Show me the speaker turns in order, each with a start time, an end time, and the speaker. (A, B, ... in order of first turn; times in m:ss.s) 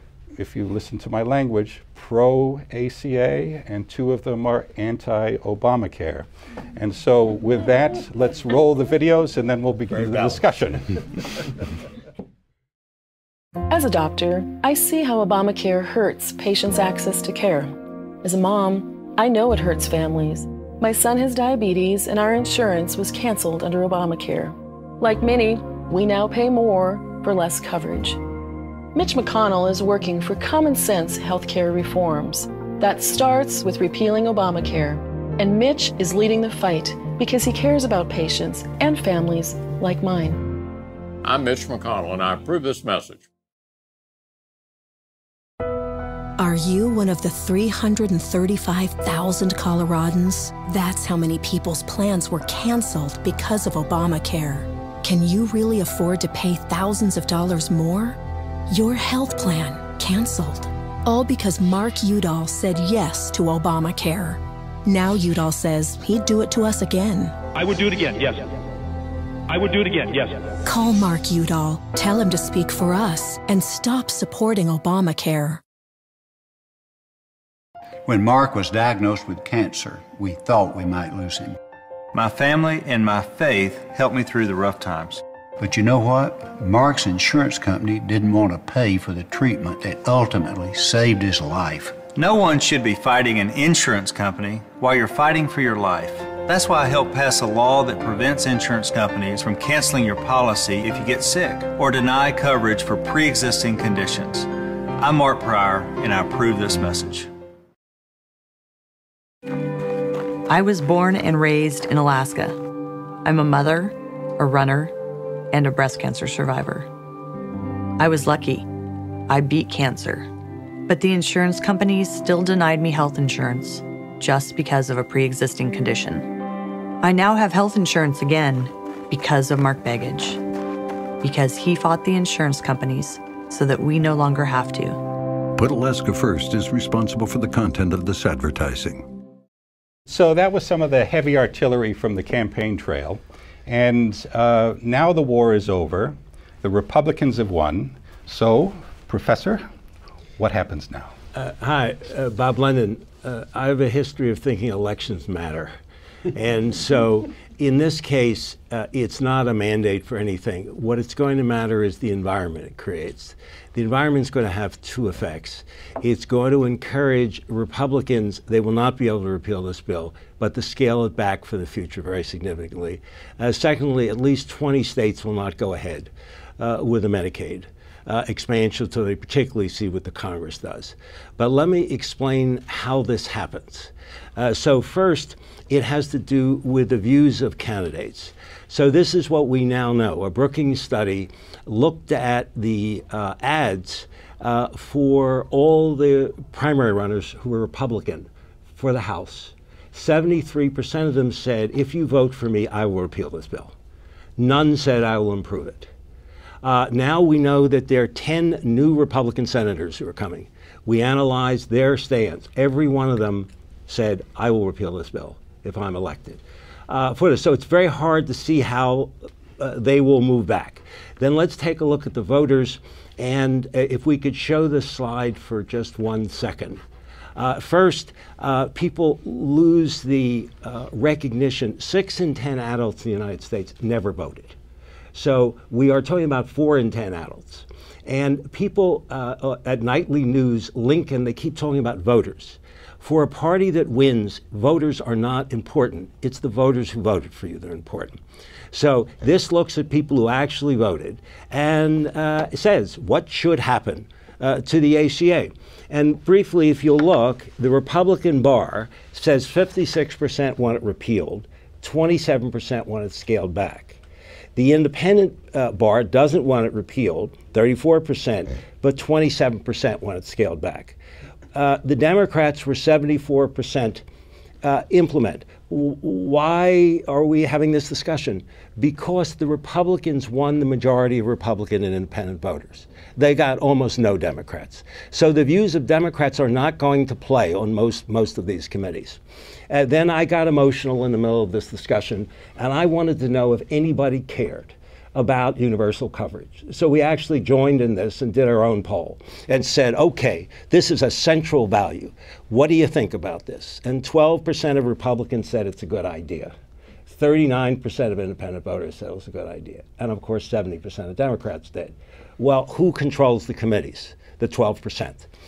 0:00.4-0:11.2 A
0:13.7-0:28.2 B
0:28.9-0:40.5 B
0:41.2-0:43.2 C
0:46.4-1:07.4 D
1:07.5-1:08.5 E
1:09.5-1:10.5 E
1:10.6-1:15.6 D
1:18.0-1:21.6 F
1:22.1-1:25.2 G
1:25.6-1:32.1 F
1:32.1-1:47.3 G
1:50.4-1:52.6 H
1:53.2-1:55.0 H
1:55.5-1:56.9 H
1:58.0-1:58.7 H
1:59.3-2:00.3 H
2:00.9-2:06.4 H
2:07.0-2:10.4 H
2:11.2-2:15.1 H
2:15.6-2:19.1 I
2:20.1-2:29.7 A
2:30.4-2:31.1 A
2:31.3-2:35.8 J
2:36.3-3:23.7 J
3:24.4-3:25.9 J
3:26.6-3:46.8 J
3:47.4-3:54.6 J
3:55.1-4:08.2 J
4:08.7-4:24.0 J
4:24.6-4:31.0 J
4:31.5-4:34.0 J
4:34.6-5:06.5 J
5:07.1-5:15.3 J